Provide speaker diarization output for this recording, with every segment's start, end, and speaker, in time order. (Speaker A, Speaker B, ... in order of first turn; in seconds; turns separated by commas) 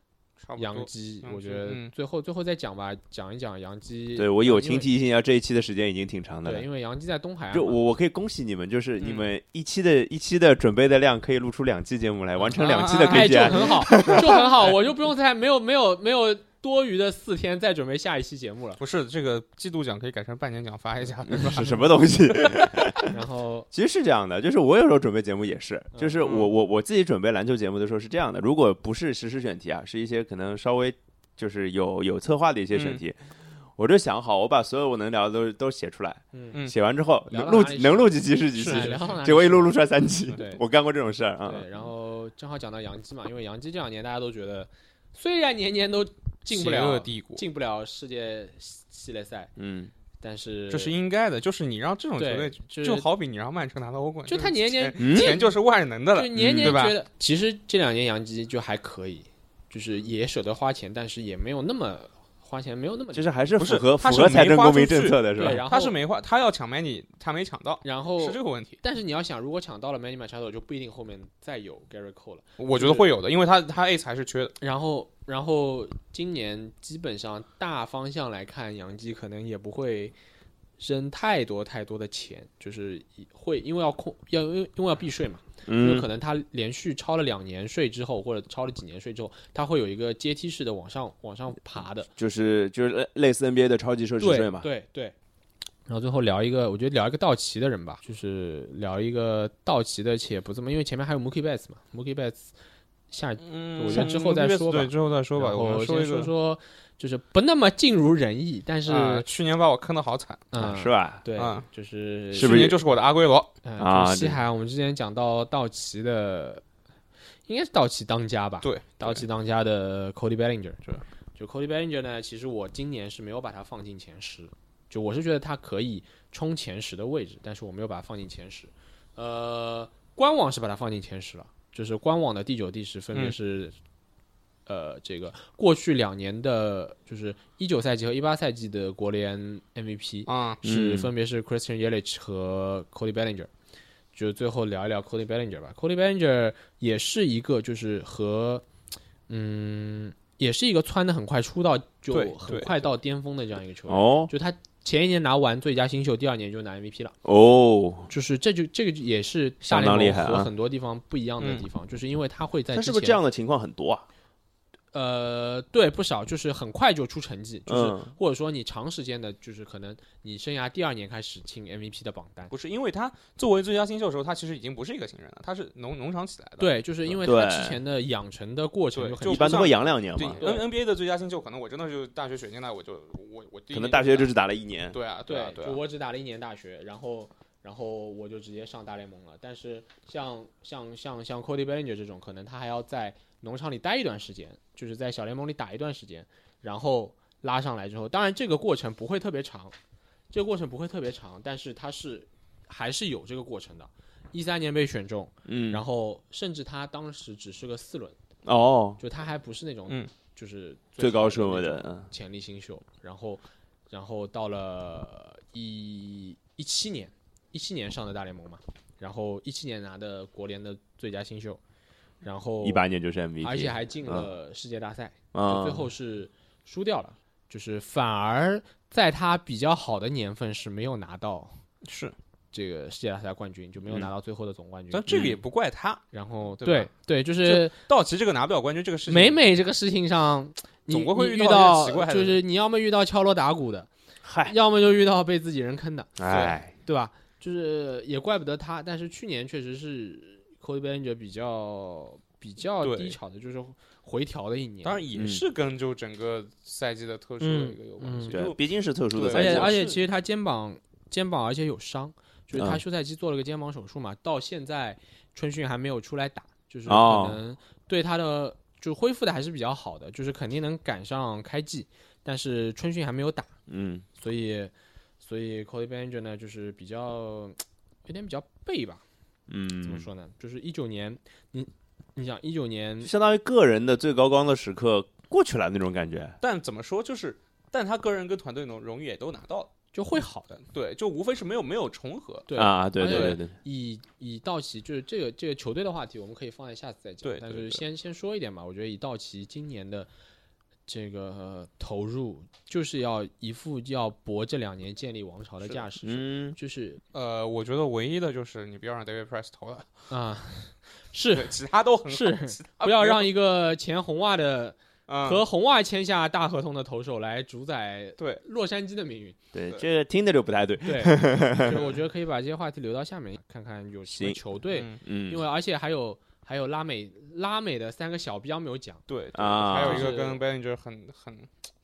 Speaker A: 0.4-1.9, Speaker B: 0.6-4.9, Speaker C: 4.2-6.7, Speaker B: 6.5-7.8, Speaker C: 7.5-14.4, Speaker A: 9.0-9.3, Speaker B: 12.4-18.8, Speaker A: 12.5-14.2, Speaker A: 18.8-22.9, Speaker C: 21.3-23.1, Speaker B: 23.1-23.7, Speaker C: 23.7-41.7, Speaker B: 25.9-26.2, Speaker A: 26.2-26.5, Speaker A: 32.7-33.0, Speaker B: 36.3-36.6, Speaker B: 37.3-40.6, Speaker B: 41.5-49.5, Speaker A: 46.5-47.5, Speaker C: 49.6-49.9, Speaker B: 50.2-51.0, Speaker A: 50.7-57.0, Speaker B: 52.2-53.1, Speaker B: 54.3-55.6, Speaker C: 55.0-55.4, Speaker B: 56.1-63.3, Speaker C: 56.4-56.9, Speaker C: 63.1-65.6, Speaker A: 63.6-68.8, Speaker B: 65.4-66.0, Speaker B: 67.8-73.1, Speaker A: 72.6-74.6, Speaker B: 74.6-80.2, Speaker B: 80.8-92.1, Speaker C: 85.7-86.1, Speaker C: 92.2-94.7, Speaker B: 94.2-95.1, Speaker B: 95.9-102.5, Speaker B: 103.1-109.3, Speaker A: 103.4-106.3, Speaker A: 108.9-110.5, Speaker B: 110.5-112.7, Speaker C: 110.6-111.2, Speaker A: 111.4-111.7, Speaker C: 112.3-112.8, Speaker A: 112.3-113.5, Speaker B: 113.6-116.6, Speaker C: 113.8-114.4, Speaker B: 117.5-120.8, Speaker A: 118.6-119.2, Speaker B: 121.3-133.8, Speaker B: 134.7-143.5, Speaker A: 140.3-140.6, Speaker C: 140.6-141.1, Speaker B: 144.1-148.7, Speaker B: 149.3-157.2, Speaker A: 152.1-152.9, Speaker C: 153.9-154.3, Speaker C: 157.2-158.1, Speaker B: 158.1-163.2, Speaker C: 159.6-160.5, Speaker A: 161.4-161.7, Speaker C: 162.7-164.1, Speaker B: 164.9-172.5, Speaker C: 167.7-168.1, Speaker A: 172.5-176.8, Speaker B: 176.6-179.8, Speaker C: 177.2-177.8, Speaker A: 178.9-184.3, Speaker C: 179.2-180.4, Speaker B: 180.4-180.7, Speaker C: 183.7-185.0, Speaker A: 184.9-185.8, Speaker B: 185.2-199.8, Speaker B: 200.3-208.2, Speaker C: 205.5-205.8, Speaker C: 208.4-209.0, Speaker B: 209.0-221.6, Speaker C: 211.0-212.1, Speaker B: 222.2-222.8, Speaker C: 222.6-224.3, Speaker B: 223.4-231.6, Speaker C: 225.3-225.9, Speaker A: 231.8-232.2, Speaker B: 232.5-235.1, Speaker A: 234.9-236.1, Speaker C: 235.1-235.4, Speaker B: 236.1-237.8, Speaker A: 236.6-236.9, Speaker A: 237.4-239.4, Speaker B: 239.1-243.9, Speaker A: 240.9-242.4, Speaker C: 244.2-244.6, Speaker B: 244.4-246.2, Speaker C: 246.2-246.7, Speaker A: 246.3-246.6, Speaker B: 246.7-255.0, Speaker A: 252.8-253.2, Speaker A: 254.8-258.6, Speaker C: 255.1-255.4, Speaker B: 257.4-258.4, Speaker C: 258.3-259.8, Speaker A: 259.1-260.0, Speaker B: 259.2-273.5, Speaker C: 262.5-262.8, Speaker C: 266.9-267.4, Speaker C: 273.7-274.1, Speaker B: 274.2-279.0, Speaker C: 279.5-280.1, Speaker B: 279.8-283.1, Speaker C: 283.0-286.4, Speaker A: 286.4-289.7, Speaker B: 289.9-290.6, Speaker A: 290.7-292.5, Speaker B: 292.5-300.1, Speaker C: 292.6-293.5, Speaker A: 293.0-293.4, Speaker A: 297.2-297.8, Speaker B: 300.9-307.0, Speaker C: 306.0-306.6, Speaker A: 307.1-309.9, Speaker B: 310.1-311.5, Speaker A: 311.3-313.3, Speaker B: 312.1-319.4, Speaker A: 315.1-315.4, Speaker C: 319.5-321.9, Speaker B: 320.9-329.0, Speaker C: 324.1-324.4, Speaker A: 324.7-325.0, Speaker C: 325.0-325.4, Speaker A: 329.1-331.5, Speaker C: 329.3-330.1, Speaker B: 329.8-330.4